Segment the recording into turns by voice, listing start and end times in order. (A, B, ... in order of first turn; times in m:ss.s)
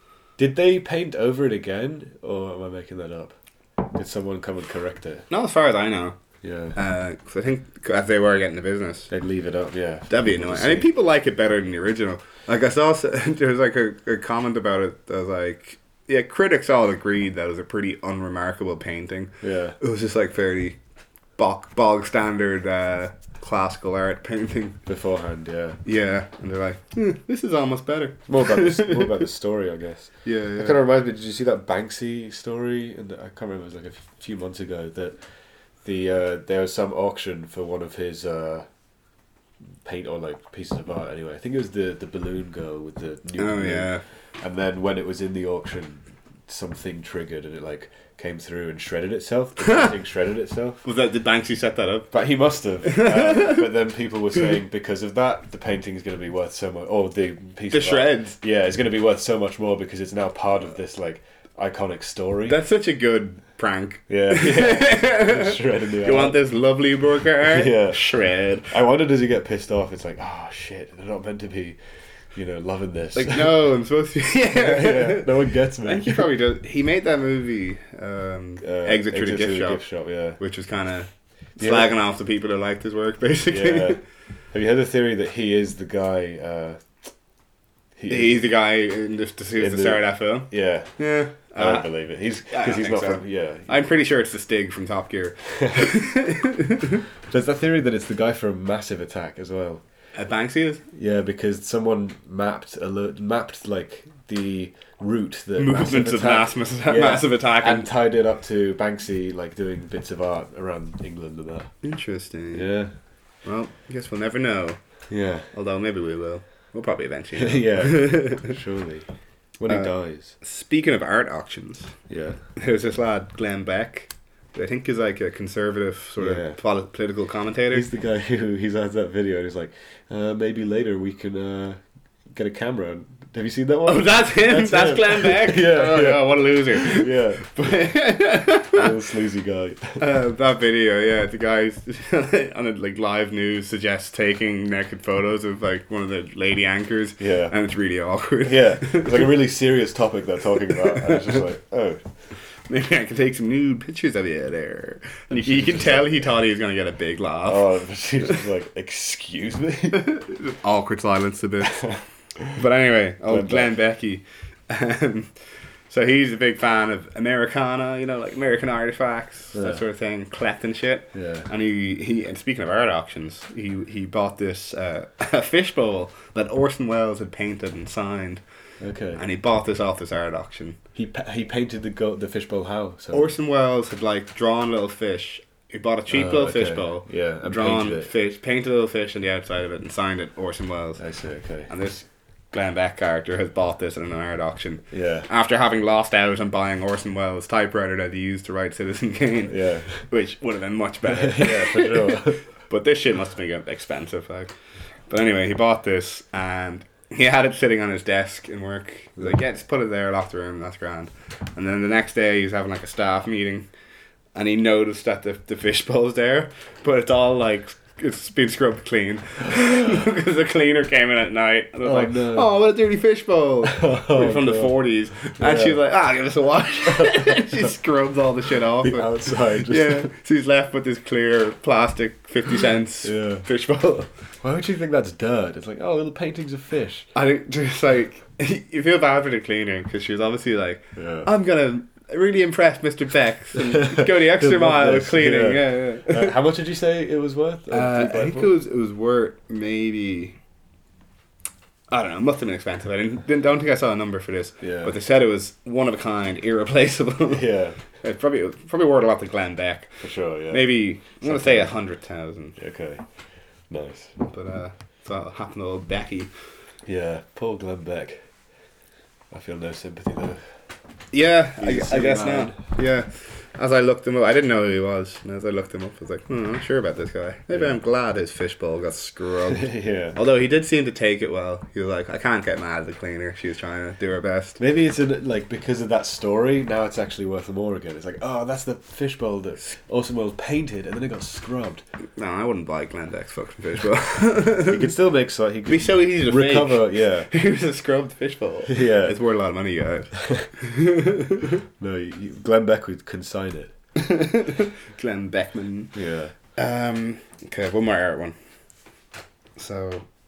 0:00.4-0:05.3 A
0:05.3-0:06.2 B
0:06.4-0:06.8 A
0:06.8-0:09.1 B
0:09.1-0:10.9 A
0:10.1-0:20.8 B
0:19.4-0:19.8 A
0:21.4-0:24.8 B
0:24.9-0:25.8 A
0:25.8-0:29.2 B
0:28.3-0:35.2 A
0:30.2-0:30.8 B
0:35.8-0:38.7 A
0:39.8-0:50.8 A
0:43.4-0:44.0 B
0:49.6-0:49.9 B
0:50.8-0:52.1 B
0:52.1-1:02.6 A
0:52.9-0:53.6 B
0:57.7-0:58.4 B
1:02.5-1:08.7 B
1:04.1-1:06.4 A
1:07.5-1:08.1 A
1:08.6-1:11.8 A
1:12.3-1:13.7 A
1:13.2-1:19.8 B
1:14.5-1:16.2 A
1:18.6-1:20.4 A
1:20.4-1:24.0 B
1:21.6-1:21.9 A
1:23.5-1:26.8 A
1:28.0-1:28.4 A
1:28.1-1:37.0 B
1:29.6-1:31.0 A
1:31.5-1:33.8 A
1:35.6-1:35.9 A
1:37.3-1:39.8 A
1:40.2-1:40.8 B
1:40.9-1:51.7 A
1:45.6-1:47.9 B
1:51.8-1:52.7 B
1:52.5-1:52.9 A
1:53.4-1:54.8 B
1:55.1-1:55.5 A
1:55.5-1:58.6 B
1:57.4-1:59.1 A
1:59.6-2:00.4 A
1:59.7-2:01.9 B
2:02.1-2:02.4 A
2:02.6-2:07.9 B
2:06.2-2:06.6 A
2:07.7-2:11.8 A
2:12.3-2:17.8 A
2:13.9-2:18.9 B
2:18.7-2:20.0 A
2:20.0-2:29.3 B
2:27.2-2:27.5 A
2:28.4-2:32.0 A
2:30.7-2:31.4 B
2:32.7-2:37.6 B
2:35.3-2:36.3 A
2:37.5-2:40.2 A
2:39.9-2:41.8 B
2:41.6-2:42.6 A
2:42.6-2:45.3 B
2:43.3-2:43.7 A
2:45.9-2:58.4 B
2:49.5-2:49.8 A
2:51.1-2:51.5 A
2:58.8-2:59.2 A
2:59.2-3:00.8 B
3:01.0-3:03.3 A
3:03.1-3:11.0 B
3:06.1-3:08.1 A
3:11.0-3:11.7 A
3:11.7-3:24.6 B
3:14.9-3:15.3 A
3:19.5-3:20.0 A
3:21.1-3:22.4 A
3:25.1-3:33.7 B
3:34.3-3:49.1 B
3:41.8-3:42.5 A
3:43.6-3:45.8 A
3:48.8-3:50.1 A
3:49.6-3:54.1 B
3:53.0-3:53.5 A
3:54.4-3:57.1 A
3:57.2-4:06.3 B
4:01.0-4:01.3 A
4:03.6-4:08.5 A
4:07.7-4:10.4 B
4:11.9-4:17.4 B
4:14.6-4:15.0 A
4:17.3-4:17.8 A
4:18.0-4:22.6 B
4:20.0-4:21.7 A
4:22.6-4:23.0 A
4:23.7-4:24.2 A
4:24.2-4:26.3 B
4:26.9-4:28.3 A
4:29.3-4:30.4 A
4:31.1-4:44.6 B
4:31.6-4:32.6 A
4:37.5-4:37.8 A
4:39.5-4:40.2 A
4:44.6-4:51.8 A
4:52.2-4:54.9 B
4:54.6-4:57.3 A
4:55.7-5:01.6 B
4:58.7-4:59.2 A
5:00.2-5:00.5 A
5:01.8-5:03.7 A
5:04.0-5:05.9 B
5:05.9-5:06.3 A
5:06.6-5:08.4 B
5:09.6-5:10.1 B